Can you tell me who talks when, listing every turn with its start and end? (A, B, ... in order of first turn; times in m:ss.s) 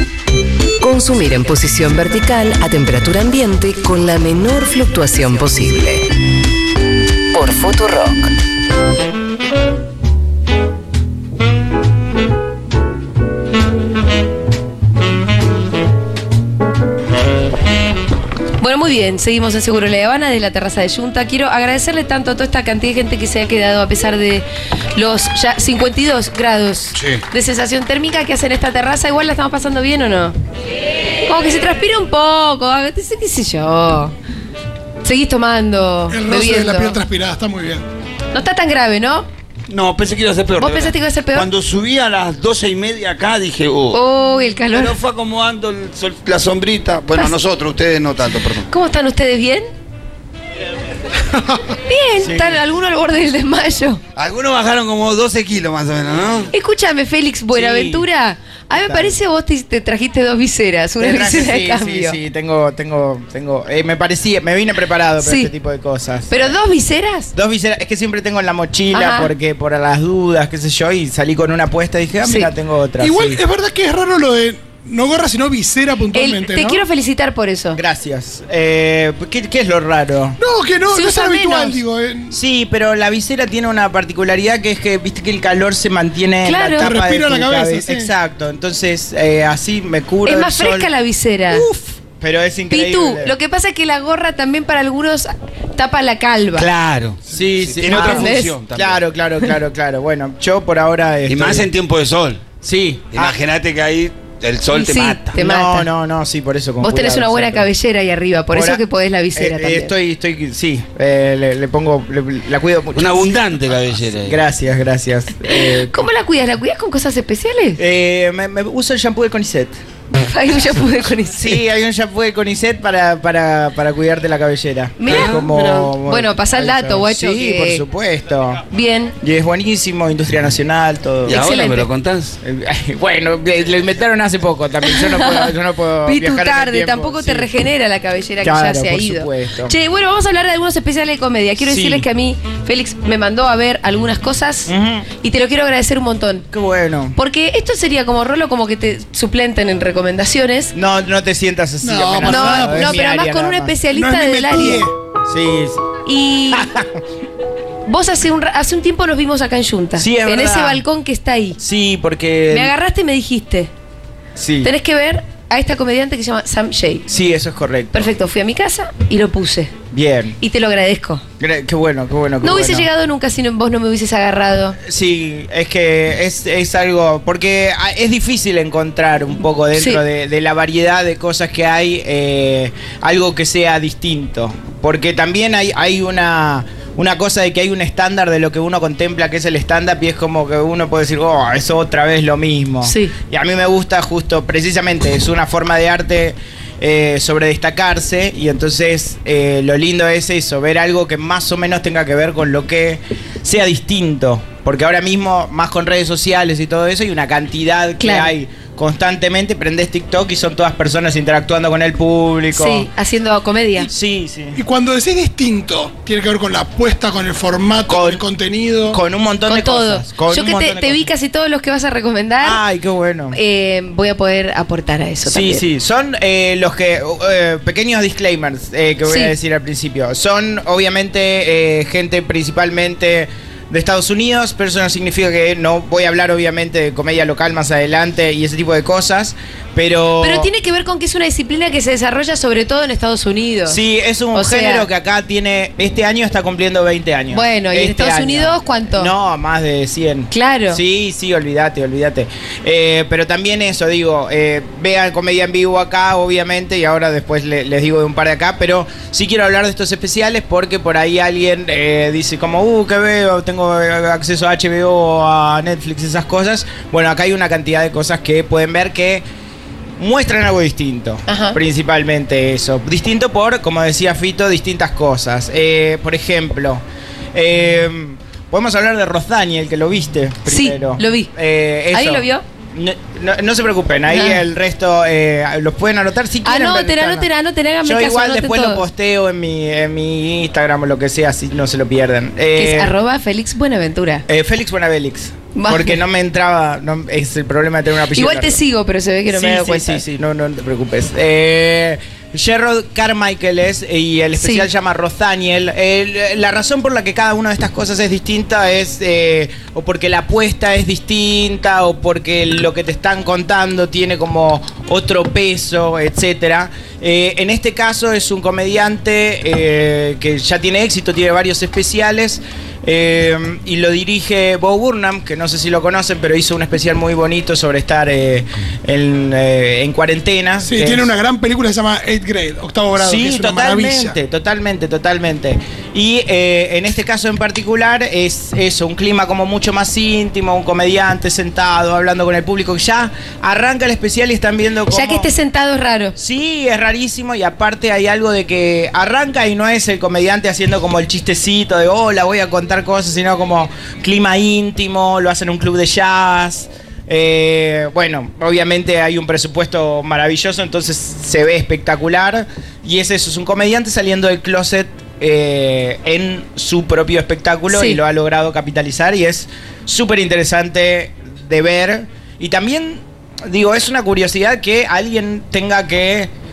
0:00.8-0:06.1 A
0:07.3-0:08.3 A
0:18.6-0:30.3 B
0:31.2-0:34.1 B
0:35.0-0:37.0 B
0:36.1-0:37.8 C
0:38.3-0:39.3 B
0:39.7-0:44.0 D
0:40.6-0:41.5 B
0:43.9-0:45.0 B
0:44.7-0:48.7 D
0:48.7-0:49.6 B
0:51.8-0:54.0 B
0:52.2-0:52.6 E
0:54.2-0:56.5 D
0:56.5-1:02.2 B
0:57.5-0:58.1 E
0:58.7-0:59.2 E
1:01.0-1:06.6 E
1:05.2-1:05.5 B
1:06.3-1:07.3 B
1:07.3-1:13.4 E
1:08.9-1:09.3 B
1:12.2-1:12.5 B
1:13.0-1:16.8 C
1:16.1-1:17.8 B
1:17.7-1:20.4 E
1:20.4-1:22.4 C
1:20.9-1:21.8 B
1:22.3-1:30.9 E
1:26.4-1:26.9 B
1:26.8-1:28.1 C
1:30.2-1:31.7 B
1:31.5-1:33.4 E
1:32.7-1:36.7 B
1:36.6-1:39.0 D
1:37.3-1:41.7 E
1:37.9-1:38.6 B
1:41.2-1:42.4 D
1:42.6-1:43.4 E
1:43.1-1:45.4 D
1:44.7-1:45.9 B
1:45.3-1:47.7 E
1:46.8-1:49.9 B
1:48.5-1:53.4 E
1:52.9-1:54.4 D
1:54.2-1:56.0 E
1:55.5-1:57.8 B
1:57.8-1:59.7 E
2:00.1-2:01.6 B
2:01.4-2:08.6 E
2:05.0-2:07.8 B
2:05.0-2:05.4 D
2:08.7-2:09.1 B
2:09.2-2:11.4 E
2:11.2-2:12.4 D
2:11.3-2:11.9 B
2:12.4-2:17.5 E
2:14.8-2:15.5 B
2:16.0-2:26.5 B
2:18.4-2:19.7 E
2:21.6-2:22.1 E
2:24.7-2:25.1 E
2:26.5-2:27.2 E
2:27.1-2:30.7 B
2:30.7-2:33.8 E
2:31.8-2:32.9 C
2:32.2-2:34.8 B
2:33.9-2:34.9 C
2:35.3-2:35.8 E
2:36.0-2:36.7 B
2:36.5-2:37.0 E
2:37.8-2:41.6 B
2:40.0-2:40.8 E
2:41.6-2:42.7 E
2:42.5-2:43.7 B
2:44.4-2:44.7 E
2:44.6-2:47.0 B
2:47.1-2:48.1 E
2:47.9-2:49.7 B
2:49.9-2:50.4 E
2:50.4-2:51.2 B
2:51.4-2:52.9 E
2:52.4-2:54.8 B
2:54.8-3:32.9 E
2:59.7-3:00.0 B
3:12.8-3:13.1 B
3:28.0-3:28.3 B
3:32.5-3:33.9 B
3:33.8-3:34.6 E
3:34.5-3:39.0 C
3:37.9-3:38.2 E
3:38.9-3:41.1 E
3:39.4-3:42.6 B
3:42.4-3:43.4 E
3:43.3-3:45.6 B
3:45.2-4:00.5 E
3:49.0-3:49.3 B
4:00.2-4:03.8 B
4:03.7-4:29.2 E
4:04.3-4:04.9 B
4:07.3-4:09.1 B
4:10.3-4:10.8 B
4:30.0-4:36.8 E
4:31.3-4:31.6 B
4:37.3-4:47.3 E
4:40.4-4:41.3 B
4:41.9-4:42.4 B
4:44.1-4:44.4 B
4:46.4-4:48.9 B
4:47.8-4:52.9 E
4:52.5-4:54.2 B
4:54.3-4:58.6 E
4:55.5-4:56.0 B
4:58.1-5:00.0 B
4:59.3-5:31.1 E
5:04.4-5:04.7 B
5:30.6-5:34.2 C
5:33.0-5:45.3 E
5:44.9-5:46.1 B
5:46.2-6:16.3 E
6:07.7-6:08.0 B